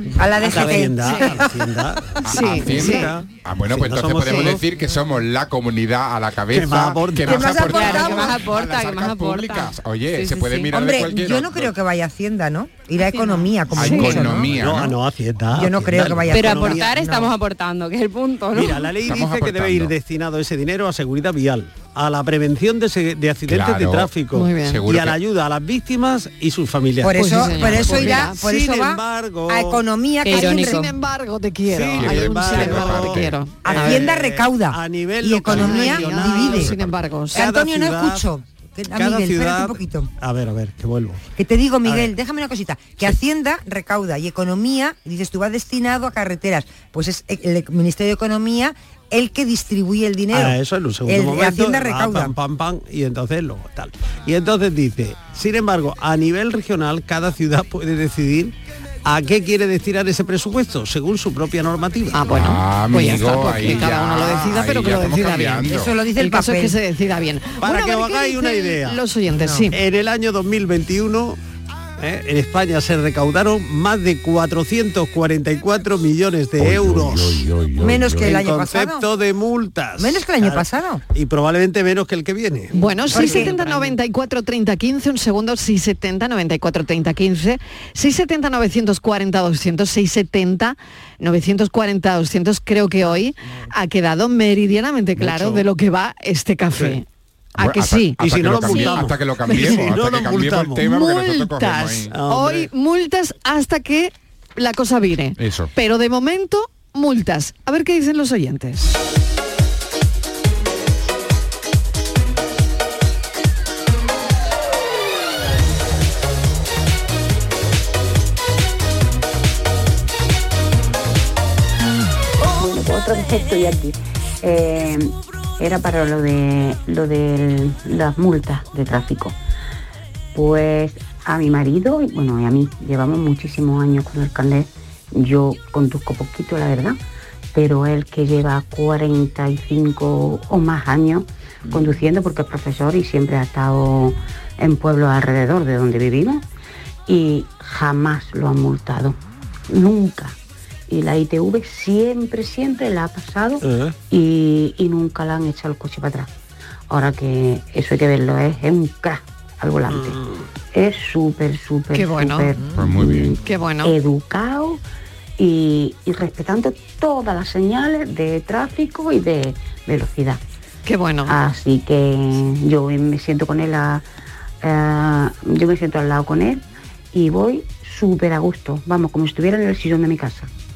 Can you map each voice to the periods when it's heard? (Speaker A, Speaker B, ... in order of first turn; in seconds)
Speaker A: 0.2-1.8, 7.2-8.4, 10.7-14.5, 15.6-17.3, 27.0-30.9, 33.6-36.7, 37.3-40.1, 41.4-52.3, 65.6-66.8, 69.4-69.7, 77.8-79.0, 80.0-81.0, 83.1-83.6, 93.0-93.7
Speaker B: 0.4-4.6, 6.5-7.9, 13.9-17.0, 18.5-27.2, 28.2-29.8, 31.7-36.7, 37.3-38.3, 39.0-41.2, 41.9-42.1, 50.3-58.5, 59.0-62.3, 67.6-69.0, 69.7-71.4, 72.0-77.5, 78.1-82.8, 95.2-95.7, 96.8-97.0, 98.2-100.9, 102.1-102.7, 153.6-153.9, 159.9-160.4
Speaker C: 0.4-0.9, 7.7-10.7, 16.3-18.9, 30.2-30.9, 82.8-83.9
Speaker D: 2.3-11.7, 13.7-15.0, 19.1-19.9, 23.5-25.2, 27.6-28.0, 32.0-33.4, 35.5-35.9, 36.5-37.0, 62.3-65.9, 76.6-78.4, 97.6-102.2, 105.4-105.7, 162.7-163.4
Speaker E: 2.3-3.1, 24.3-24.8, 27.1-28.4, 30.3-34.1, 35.6-37.5, 62.1-69.8, 82.7-99.9, 100.8-108.9, 161.9-162.5, 163.4-163.9, 170.9-171.4
Speaker F: 122.5-129.4, 130.3-137.0, 137.5-146.4, 147.1-149.2, 149.7-150.4, 150.9-156.3, 156.9-160.2, 160.7-164.8, 165.4-170.4, 171.3-174.1, 174.6-180.5